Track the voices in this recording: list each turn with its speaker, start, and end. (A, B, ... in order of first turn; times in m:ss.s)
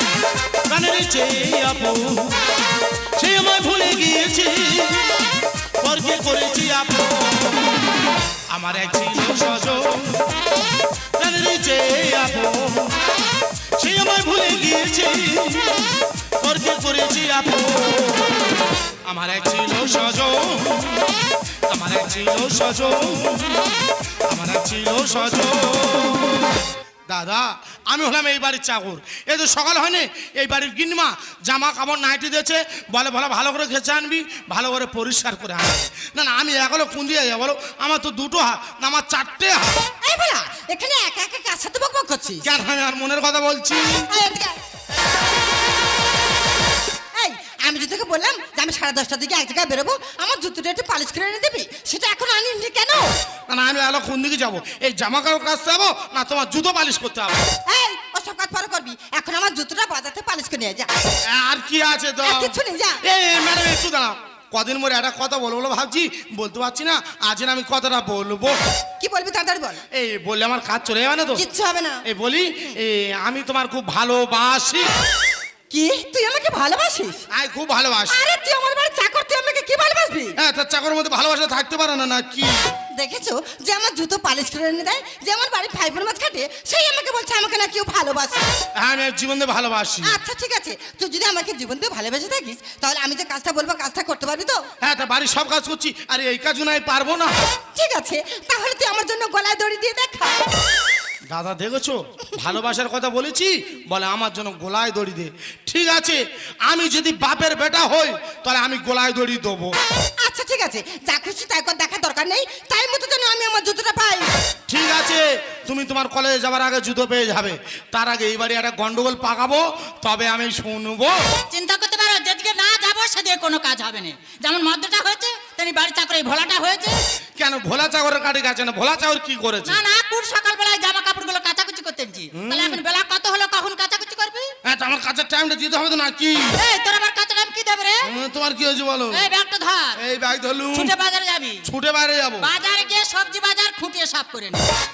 0:00.7-0:02.4 A
0:03.2-0:05.2 A
0:05.8-0:07.8 A
0:08.5-0:10.2 A
0:11.2-0:12.9 A
0:13.8-0:15.9 A
0:16.4-0:18.4 A
0:19.1-0:21.1 A
0:21.7-0:23.6 A
0:24.3-0:26.6 A
0:27.1-0:39.8 A
0:40.0-0:42.5 B
0:42.4-0:44.1 A
0:44.1-0:44.6 B
0:47.2-0:53.2 B
0:53.5-0:57.4 A
0:57.7-1:00.9 B
1:01.3-1:08.6 A
1:02.2-1:03.0 B
1:09.0-1:09.8 B
1:09.9-1:11.4 A
1:11.4-1:12.0 B
1:12.0-1:14.9 A
1:15.7-1:17.2 B
1:17.3-1:18.2 A
1:18.1-1:20.4 B
1:20.4-1:22.6 A
1:22.9-1:28.5 B
1:28.8-1:30.2 A
1:30.0-1:34.7 B
1:34.8-1:37.3 A
1:37.8-1:40.5 B
1:41.3-1:49.7 A
1:50.2-1:54.3 B
1:54.7-2:01.2 A
2:01.5-2:07.0 C
2:07.4-2:09.8 A
2:09.7-2:14.5 C
2:12.3-2:12.8 A
2:14.6-2:16.6 A
2:16.6-2:18.1 C
2:18.0-2:19.2 A
2:19.1-2:20.0 C
2:20.0-2:20.9 A
2:20.7-2:21.6 C
2:21.6-2:22.5 A
2:22.4-2:24.7 C